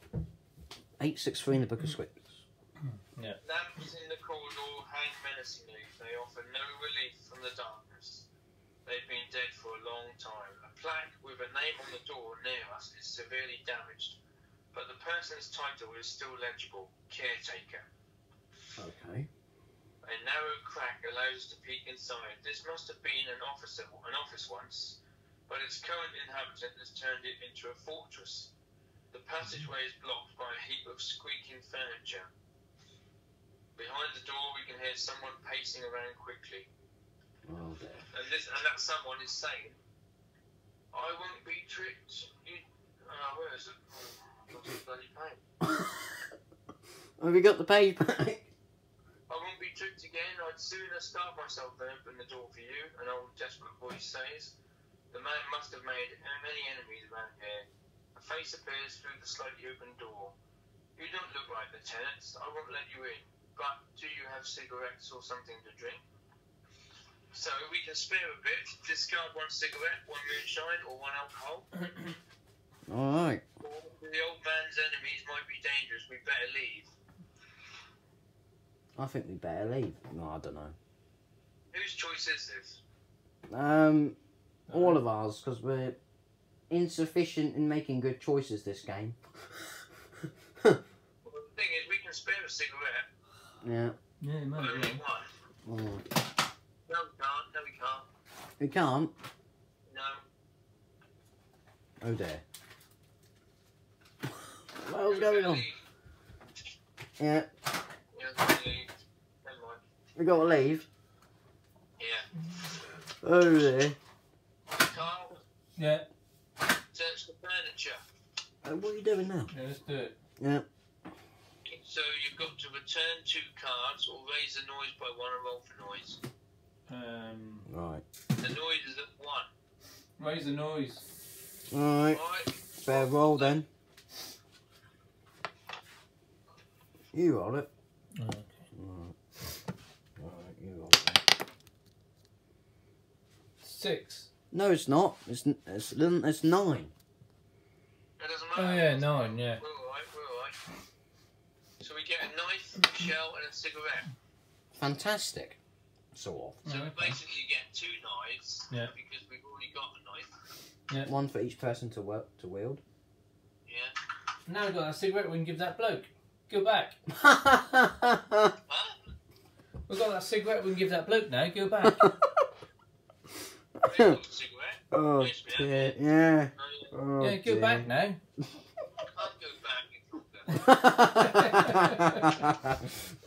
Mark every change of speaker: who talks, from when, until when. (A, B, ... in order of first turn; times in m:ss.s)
0:01.0-0:02.4 A
0:02.8-0:03.4 B
0:03.4-0:08.3 C
0:08.9-0:14.2 C
0:14.7-0:17.9 C
0:18.8-0:19.3 A
0:20.0-0:28.5 C
0:29.1-0:32.3 C
0:33.8-0:36.7 C
0:37.5-0:38.1 A
0:38.1-0:39.8 C
0:40.9-0:45.4 C
0:45.6-0:46.2 A
0:47.2-0:48.5 A
0:49.3-0:54.6 C
0:55.1-1:00.4 C
1:01.0-1:06.0 C
1:07.3-1:11.7 C
1:12.9-1:13.4 A
1:13.6-1:16.9 C
1:19.0-1:20.8 A
1:21.7-1:22.8 C
1:23.5-1:24.2 A
1:24.7-1:25.0 B
1:24.7-1:26.0 A
1:26.7-1:29.2 A
1:31.2-1:33.1 C
1:33.6-1:34.0 A
1:34.2-1:35.0 B
1:34.5-1:35.3 C
1:35.7-1:36.0 A
1:36.9-1:38.1 C
1:38.6-1:39.1 A
1:39.9-1:40.2 C
1:42.0-1:42.4 A
1:44.7-1:45.7 A
1:45.0-1:45.8 C
1:47.2-1:47.5 A
1:48.1-1:48.9 C
1:49.4-1:49.8 C
1:50.2-1:50.9 A
1:52.0-1:52.7 C
1:53.2-1:54.0 A
1:53.4-1:53.7 C
1:54.7-1:55.4 C
1:55.8-1:56.1 B
1:56.9-1:58.0 C
1:58.6-1:59.5 A
1:59.5-2:00.2 B
2:00.4-2:00.7 A
2:01.6-2:06.2 C
2:06.9-2:07.7 B
2:07.7-2:08.0 A
2:08.4-2:09.5 C
2:10.2-2:11.0 B
2:11.7-2:12.2 A
2:12.1-2:13.6 C
2:12.8-2:13.7 A
2:17.1-2:17.7 A
2:18.2-2:18.7 B
2:18.7-2:19.2 A
2:20.2-2:21.2 A
2:23.6-2:24.3 B
2:24.5-2:26.9 A
2:28.2-2:30.6 C
2:28.5-2:29.6 B
2:31.8-2:34.1 C
2:34.8-2:35.6 A
2:36.1-2:37.2 A
2:36.6-2:37.1 B
2:36.7-2:40.3 C
2:41.0-2:42.8 A
2:43.7-2:43.9 C
2:44.5-2:47.0 B
2:47.1-2:48.6 A
2:48.7-2:49.0 C
2:49.9-2:52.2 B
2:53.8-2:54.2 A
2:53.8-2:56.0 C
2:54.9-2:57.9 A
2:56.5-2:56.9 C
2:57.2-2:58.2 B
2:59.1-3:00.8 C
3:00.6-3:03.0 A
3:01.0-3:02.3 B